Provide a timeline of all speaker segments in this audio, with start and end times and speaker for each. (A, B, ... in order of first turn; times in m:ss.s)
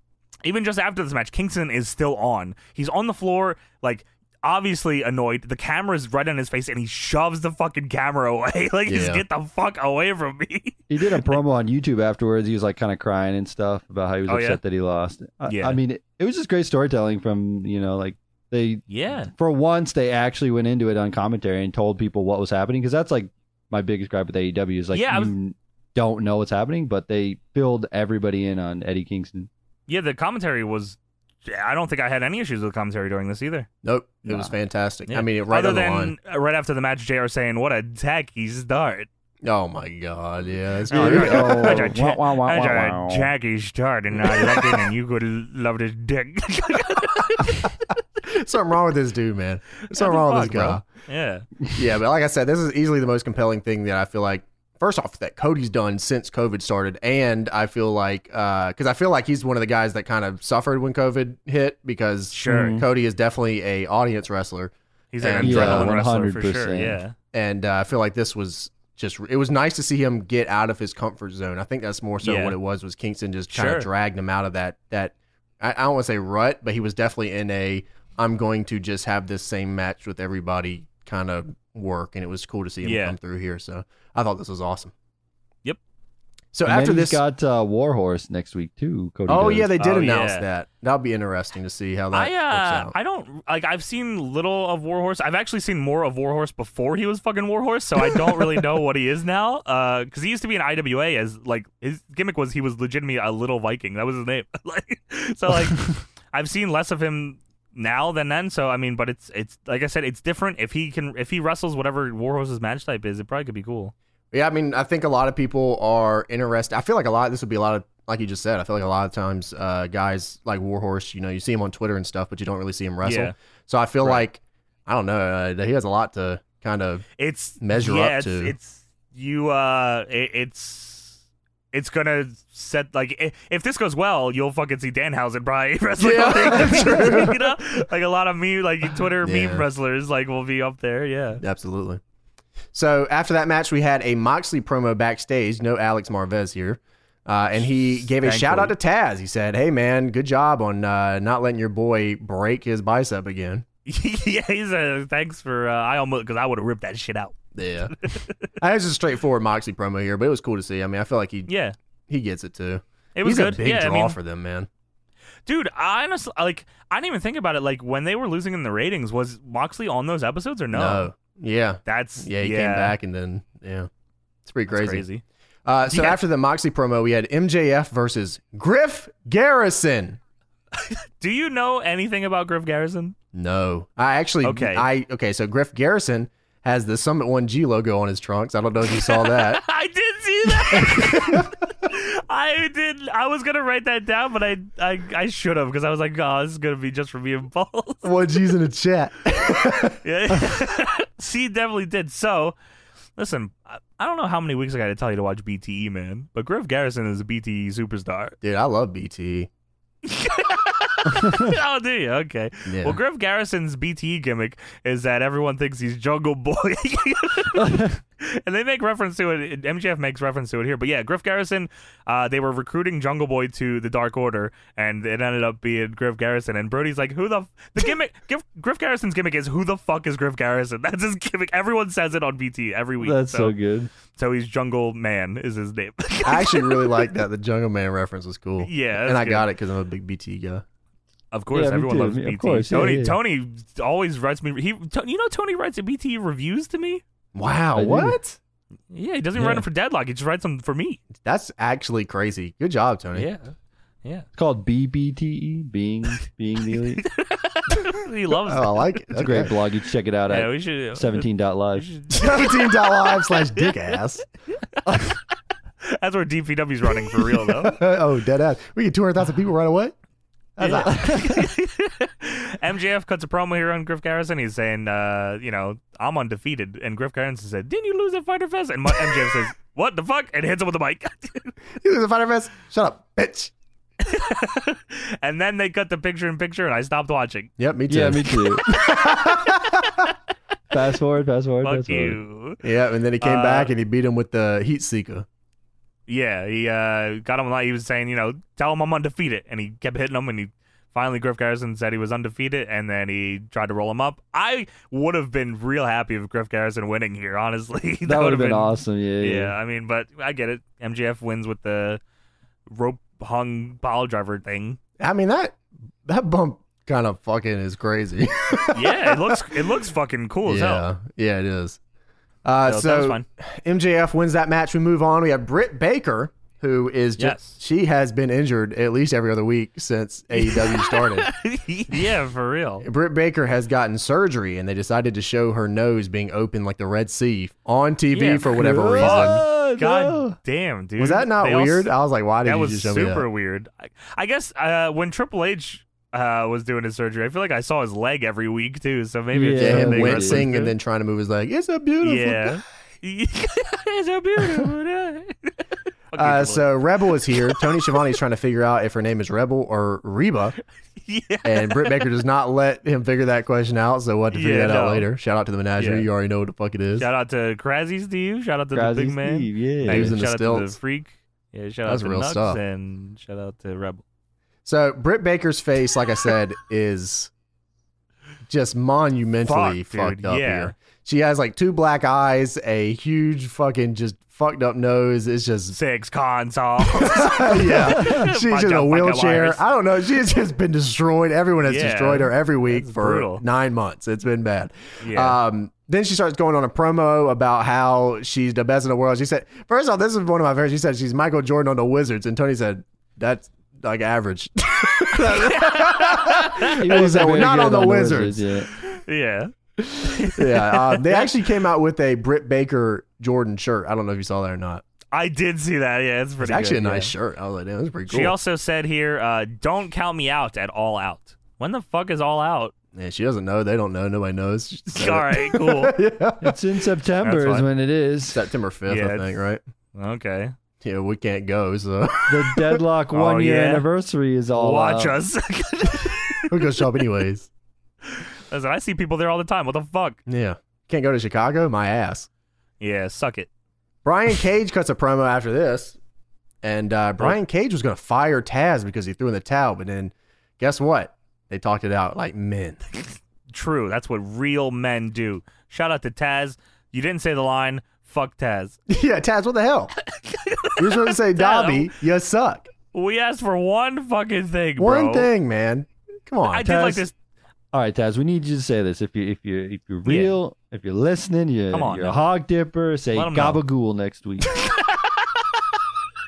0:00.4-0:11.4 A
0:08.9-0:09.2 B
0:10.9-0:29.5 C
0:14.3-0:14.6 A
0:15.5-0:15.8 A
0:18.9-0:19.3 A
0:24.9-0:25.3 A
0:29.9-0:33.7 A
0:33.8-0:36.1 B
0:35.1-0:39.1 A
0:39.4-0:41.9 B
0:40.9-0:47.7 A
0:40.9-0:43.3 C
0:48.2-0:50.8 B
0:49.9-0:51.5 A
0:51.7-1:05.9 B
1:02.3-1:02.8 A
1:02.5-1:02.9 C
1:05.1-1:07.2 A
1:05.4-1:07.0 C
1:07.3-1:24.9 B
1:12.2-1:12.6 A
1:13.5-1:13.9 A
1:22.8-1:23.2 A
1:26.5-1:27.2 B
1:26.7-1:29.7 C
1:29.3-1:32.9 B
1:29.8-1:30.4 A
1:32.1-1:53.9 A
1:54.3-2:07.0 B
2:03.0-2:03.3 A
2:07.2-2:11.2 A
2:07.6-2:08.5 B
2:11.7-2:21.4 A
2:16.0-2:17.4 B
2:19.2-2:19.6 B
2:21.4-2:22.0 B
2:22.7-2:33.6 B
2:28.0-2:28.7 A
2:33.9-2:37.4 A
2:37.6-2:38.0 B
2:38.0-2:38.3 A
2:38.6-2:41.5 B
2:41.5-2:41.8 A
2:42.1-2:44.7 B
2:43.2-2:44.2 A
2:45.5-2:51.1 A
2:50.7-2:53.9 B
2:51.9-2:53.0 A
2:54.5-2:55.0 B
2:54.7-2:55.2 A
2:55.7-3:00.2 B
2:55.9-2:56.2 A
3:00.7-3:03.2 A
3:03.3-3:09.6 B
3:04.4-3:04.9 A
3:09.0-3:18.1 A
3:10.7-3:11.5 B
3:18.0-3:20.5 B
3:19.4-3:22.6 A
3:23.2-3:28.4 A
3:28.4-3:29.5 B
3:30.0-3:53.5 A
3:31.2-3:31.5 C
3:32.7-3:33.0 B
3:37.6-3:38.0 C
3:53.0-3:53.9 C
3:54.2-3:57.1 A
3:56.2-4:00.6 B
3:58.6-3:59.5 A
4:01.3-4:07.0 A
4:01.5-4:03.2 C
4:07.4-4:08.4 B
4:07.8-4:08.2 C
4:08.9-4:11.0 A
4:09.4-4:09.6 C
4:11.1-4:13.3 B
4:13.2-4:13.5 A
4:14.4-4:17.0 C
4:16.7-4:19.0 A
4:18.5-4:19.5 B
4:19.1-4:21.9 C
4:20.3-4:24.0 A
4:22.1-4:24.3 B
4:25.8-4:27.8 A
4:27.2-4:30.0 B
4:30.6-4:31.5 B
4:30.6-4:41.6 A
4:30.9-4:31.2 C
4:41.8-4:43.5 B
4:44.0-4:47.5 A
4:47.6-4:50.1 B
4:47.9-4:48.6 C
4:48.8-4:49.4 A
4:50.7-4:52.2 C
4:51.6-4:52.6 A
4:52.6-4:55.3 B
4:53.2-4:53.7 A
4:56.1-5:12.0 A
5:08.0-5:09.5 C
5:12.7-5:14.8 A
5:15.0-5:19.4 B
5:18.7-5:20.8 A
5:20.5-5:21.8 B
5:22.4-5:31.3 B
5:22.7-5:23.2 A
5:27.2-5:27.6 A
5:30.4-5:32.9 A
5:32.8-5:39.4 B
5:38.1-5:41.9 A
5:38.5-5:40.4 C
5:41.0-5:43.2 B
5:42.4-5:50.7 A
5:49.3-5:50.5 C
5:49.6-5:52.6 B
5:52.0-5:55.6 A
5:56.1-5:56.7 A
5:56.2-6:00.6 B
5:57.5-5:58.0 A
6:01.0-6:01.9 A
6:01.4-6:07.1 B
6:04.3-6:05.1 A
6:05.8-6:06.1 A
6:07.0-6:14.0 A
6:08.7-6:10.2 C
6:09.8-6:10.8 B
6:11.9-6:12.6 B
6:14.6-6:17.3 B
6:18.5-6:25.8 B
6:19.4-6:20.7 A
6:25.8-6:29.6 A
6:26.9-6:48.5 B
6:31.6-6:33.4 A
6:35.0-6:35.4 A
6:45.3-6:47.2 A
6:46.8-6:48.7 C
6:48.8-6:51.3 A
6:49.9-6:54.8 B
6:55.1-6:57.1 A
6:56.4-6:58.4 B
6:58.1-7:02.7 A
7:03.0-7:06.6 B
7:04.9-7:06.0 A
7:06.4-7:08.5 C
7:07.2-7:07.7 A
7:08.3-7:09.6 B
7:08.9-7:09.4 A
7:10.0-7:10.5 A
7:10.8-7:12.8 B
7:12.3-7:15.2 C
7:13.1-7:13.9 A
7:14.6-7:16.5 A
7:16.5-7:17.5 B
7:18.1-7:20.2 A
7:20.3-7:22.3 B
7:22.8-7:23.5 A
7:24.0-7:26.0 B
7:26.6-7:32.8 B
7:33.5-7:38.8 A
7:38.9-7:39.9 B
7:40.0-7:41.9 A
7:40.8-7:42.7 B
7:42.9-7:45.3 A
7:44.8-7:47.0 B
7:46.5-7:47.1 A
7:47.7-7:54.5 C
7:50.1-7:50.4 A
7:51.7-7:52.2 A
7:53.1-7:53.6 A
7:54.5-7:55.3 A